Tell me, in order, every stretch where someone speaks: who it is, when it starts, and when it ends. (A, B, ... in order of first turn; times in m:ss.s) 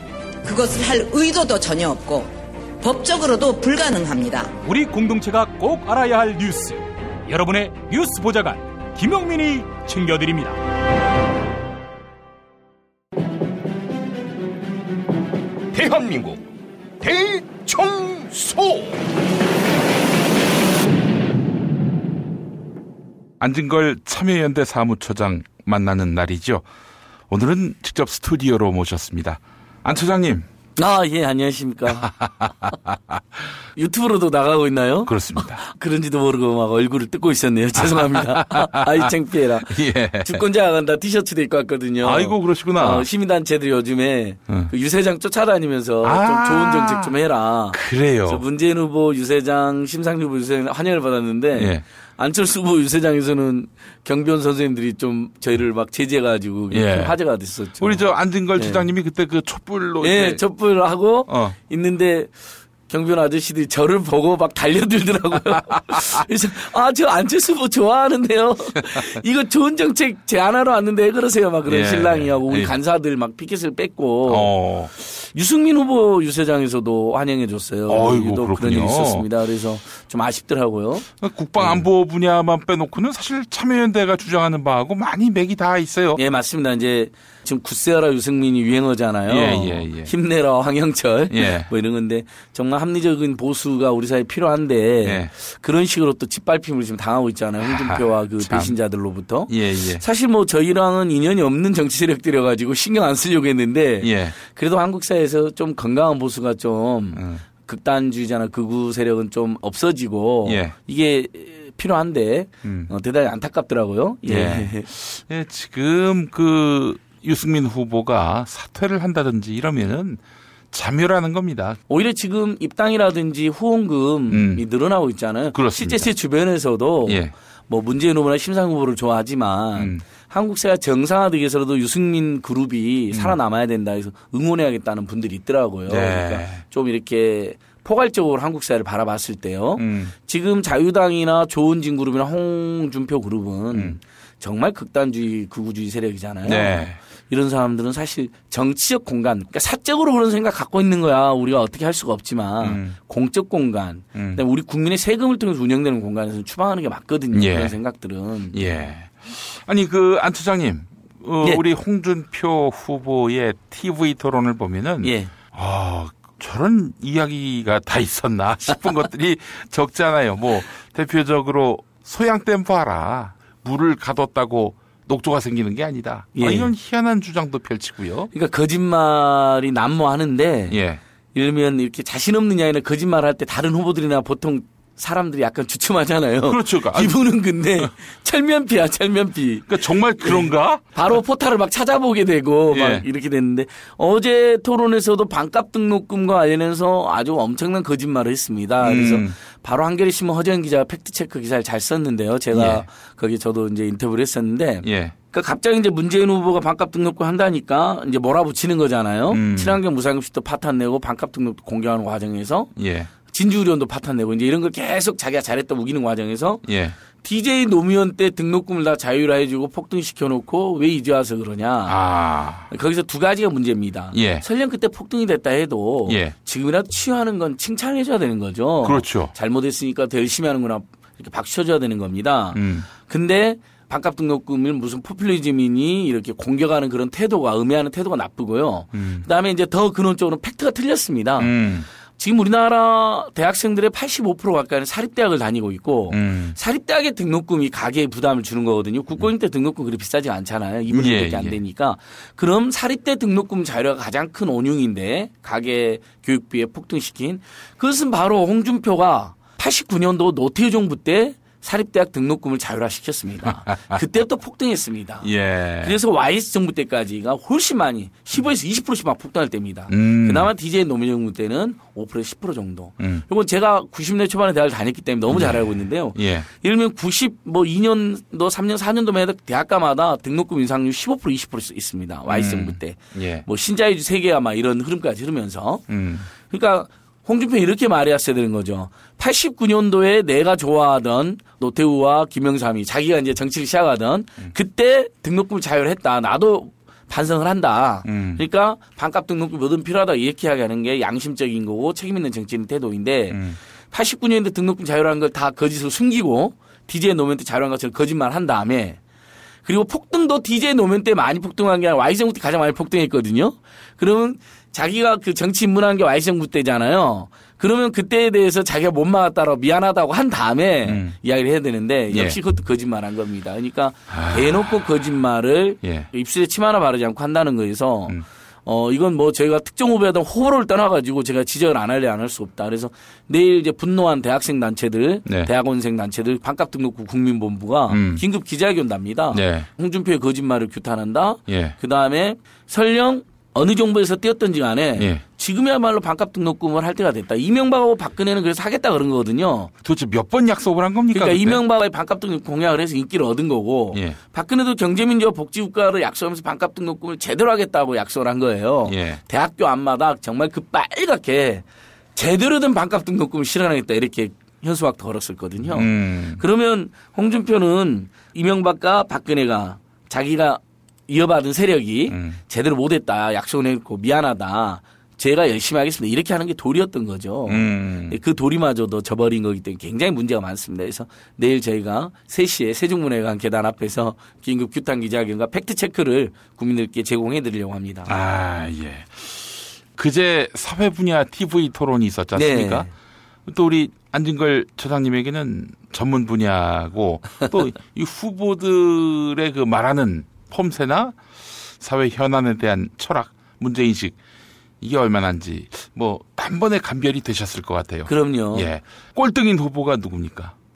0:00.4-0:04.5 A
0:04.6-0:10.6 B
0:15.7-0:16.4 C
0:17.0-0:19.0 C
0:23.4-0:26.7 D
0:27.3-0:30.5 D
0:30.8-0:32.1 E
0:31.9-0:33.6 D
0:33.8-0:58.9 E
0:35.0-0:35.6 D
0:37.8-0:39.1 D
0:39.7-0:40.4 D
0:42.0-0:43.1 D
0:44.5-0:44.7 D
0:46.0-0:47.2 D
0:47.7-0:48.4 D
0:51.6-0:51.8 D
0:56.7-0:57.2 D
0:57.8-1:00.4 D
1:00.0-1:21.9 E
1:01.3-1:01.6 D
1:11.7-1:12.8 D
1:14.3-1:14.9 D
1:17.9-1:19.3 D
1:21.1-1:26.2 D
1:26.2-1:54.9 E
1:29.3-1:30.1 D
1:31.3-1:31.7 D
1:35.0-1:35.3 D
1:37.6-1:38.8 D
1:39.5-1:40.0 D
1:44.0-1:44.4 D
1:47.1-1:47.4 D
1:50.4-1:50.8 D
1:52.6-1:52.9 D
1:54.3-2:01.8 D
2:01.9-2:38.8 E
2:04.3-2:04.6 D
2:05.5-2:06.2 D
2:07.0-2:07.3 D
2:09.8-2:10.0 D
2:15.9-2:16.6 D
2:19.8-2:20.2 D
2:23.7-2:24.0 D
2:26.4-2:27.0 D
2:32.6-2:33.0 D
2:34.1-2:34.4 D
2:37.3-2:37.8 D
2:38.5-2:58.3 D
2:45.0-2:45.3 E
2:56.4-2:56.7 E
2:58.3-3:00.8 E
3:00.7-3:01.0 D
3:01.3-3:09.7 E
3:06.5-3:07.2 D
3:09.7-3:11.2 D
3:10.2-3:32.7 E
3:12.7-3:13.0 D
3:18.8-3:19.3 D
3:22.5-3:22.9 D
3:24.8-3:25.2 D
3:29.3-3:29.8 D
3:32.8-3:33.1 D
3:33.2-3:36.6 E
3:36.6-3:37.0 D
3:37.1-3:42.0 E
3:41.9-3:42.7 D
3:42.7-4:01.6 E
3:44.1-3:44.4 D
3:46.1-3:46.4 D
3:48.8-3:49.3 D
3:52.5-3:52.9 D
3:58.9-3:59.3 D
4:01.4-4:01.9 D
4:02.2-4:45.8 E
4:06.1-4:06.6 D
4:10.9-4:11.6 D
4:23.4-4:24.0 D
4:25.2-4:26.0 D
4:29.9-4:30.5 D
4:33.0-4:33.3 D
4:35.3-4:36.5 D
4:42.3-4:43.5 D
4:45.9-4:46.3 D
4:46.4-5:09.0 E
4:58.0-4:58.4 D
5:03.3-5:03.6 D
5:09.6-5:49.7 E
5:20.8-5:21.2 D
5:22.1-5:22.4 D
5:24.1-5:25.2 D
5:25.8-5:26.1 D
5:35.3-5:35.5 D
5:37.9-5:38.2 D
5:39.3-5:39.7 D
5:41.5-5:41.8 D
5:45.0-5:45.2 D
5:49.8-5:51.6 D
5:51.1-6:28.1 E
5:53.9-5:54.2 D
5:58.8-5:59.2 D
6:05.6-6:06.4 D
6:12.1-6:12.4 D
6:17.5-6:18.2 D
6:28.1-6:32.9 D
6:32.4-6:32.9 E
6:33.5-6:44.2 D
6:44.8-6:50.6 D
6:48.1-6:48.7 E